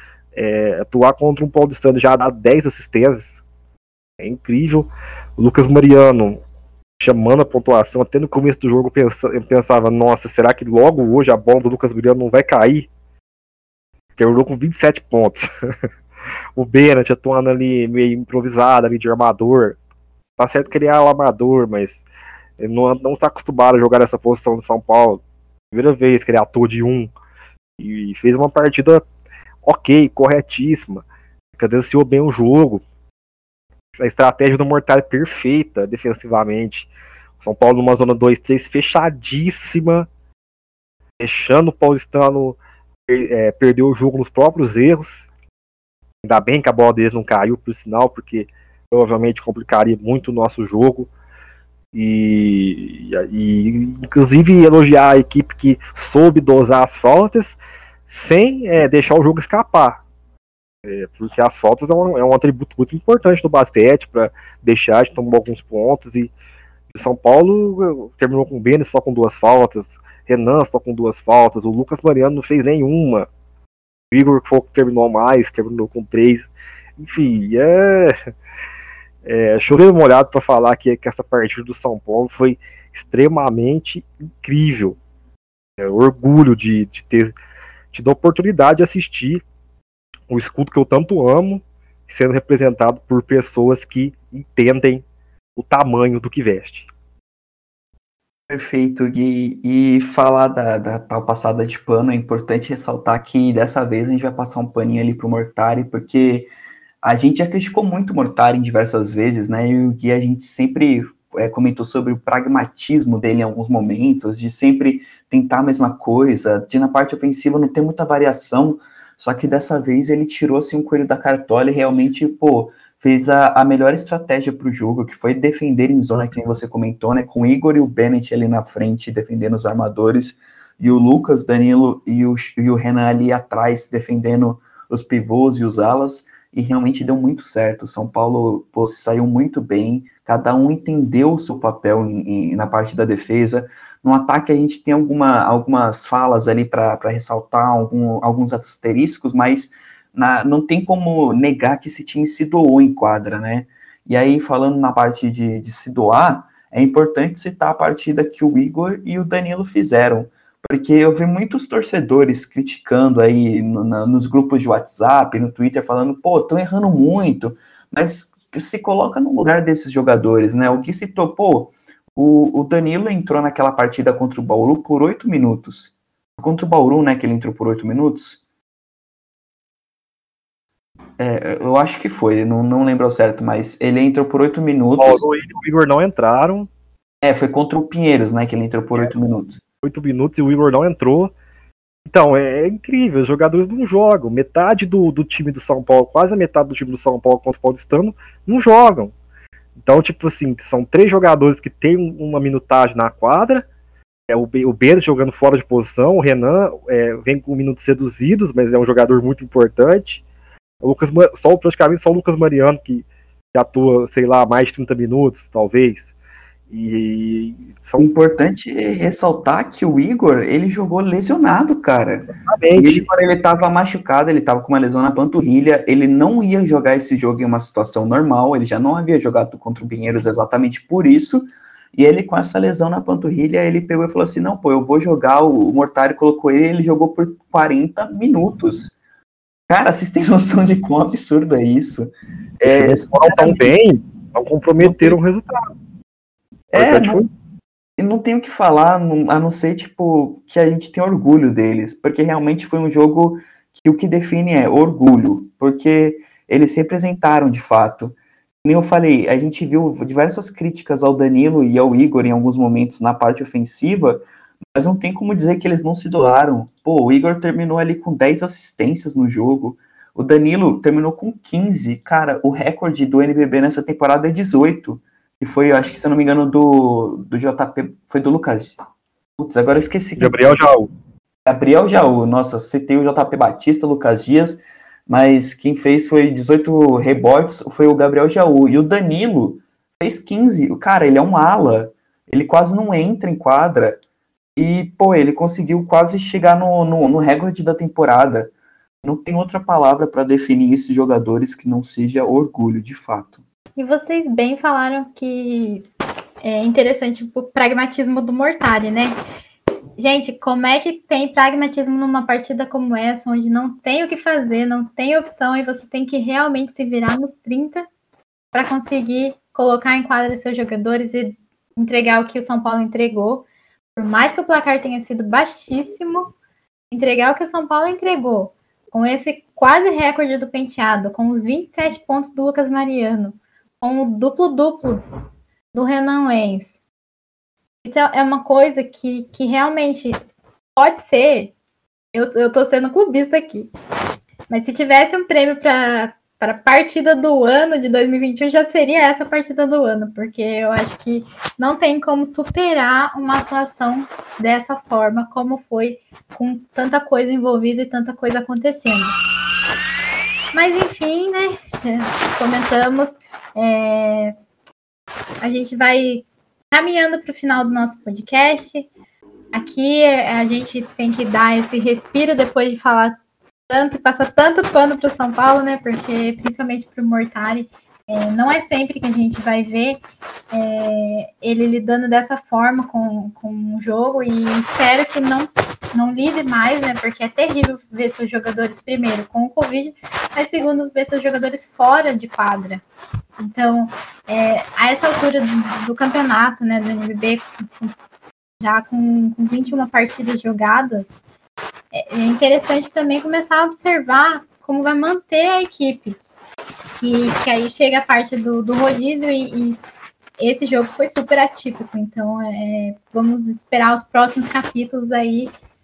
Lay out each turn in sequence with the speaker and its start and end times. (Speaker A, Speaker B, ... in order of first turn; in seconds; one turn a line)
Speaker A: 0.3-3.4
Speaker A: 4.2-6.4
Speaker A: 7.0-12.9
Speaker A: 14.2-15.5
Speaker A: 16.6-19.8
Speaker A: 20.4-22.1
Speaker A: 22.6-27.1
Speaker A: 27.8-29.0
Speaker A: 29.6-31.0
Speaker A: 31.6-32.8
Speaker A: 33.9-36.9
Speaker A: 37.4-40.1
Speaker A: 41.2-45.3
Speaker A: 46.2-51.1
Speaker A: 51.9-60.0
Speaker A: 60.9-66.3
Speaker A: 66.9-73.3
Speaker A: 74.1-78.3
Speaker A: 79.2-85.0
Speaker A: 85.8-87.3
Speaker A: 87.9-89.4
Speaker A: 90.3-95.0
Speaker A: 95.6-96.9
Speaker B: 98.5-106.5
Speaker B: 107.0-178.4
Speaker B: 181.2-185.2
Speaker A: 185.0-186.7
Speaker B: 187.2-189.6
Speaker A: 189.8-191.3
Speaker A: 192.1-199.1
Speaker A: 199.8-203.7
Speaker A: 204.3-210.2
Speaker A: 210.8-216.1
Speaker A: 216.7-218.1
Speaker B: 218.0-238.9
Speaker A: 222.3-223.1
Speaker B: 239.7-243.7
Speaker A: 242.7-245.7
Speaker B: 244.8-245.2
Speaker B: 246.7-247.2
Speaker A: 246.7-247.3
Speaker B: 248.0-264.2
Speaker B: 264.8-278.8
Speaker B: 279.4-280.6
Speaker A: 280.2-280.9
Speaker B: 281.5-294.0
Speaker B: 294.6-298.5
Speaker B: 299.0-303.4
Speaker C: 303.8-305.9
Speaker C: 306.4-309.2
Speaker C: 310.0-317.9
Speaker C: 318.5-323.4
Speaker C: 324.0-326.3
Speaker C: 326.9-335.0
Speaker C: 335.7-336.7
Speaker C: 337.8-340.2
Speaker C: 340.8-341.5
Speaker C: 342.1-343.7
Speaker C: 344.5-359.2
Speaker C: 360.5-364.3
Speaker C: 365.4-368.9
Speaker C: 369.5-373.2
Speaker C: 373.7-392.8
Speaker C: 393.4-397.9
Speaker C: 398.6-401.2
Speaker C: 401.9-406.2
Speaker C: 407.0-409.8
Speaker C: 410.4-415.5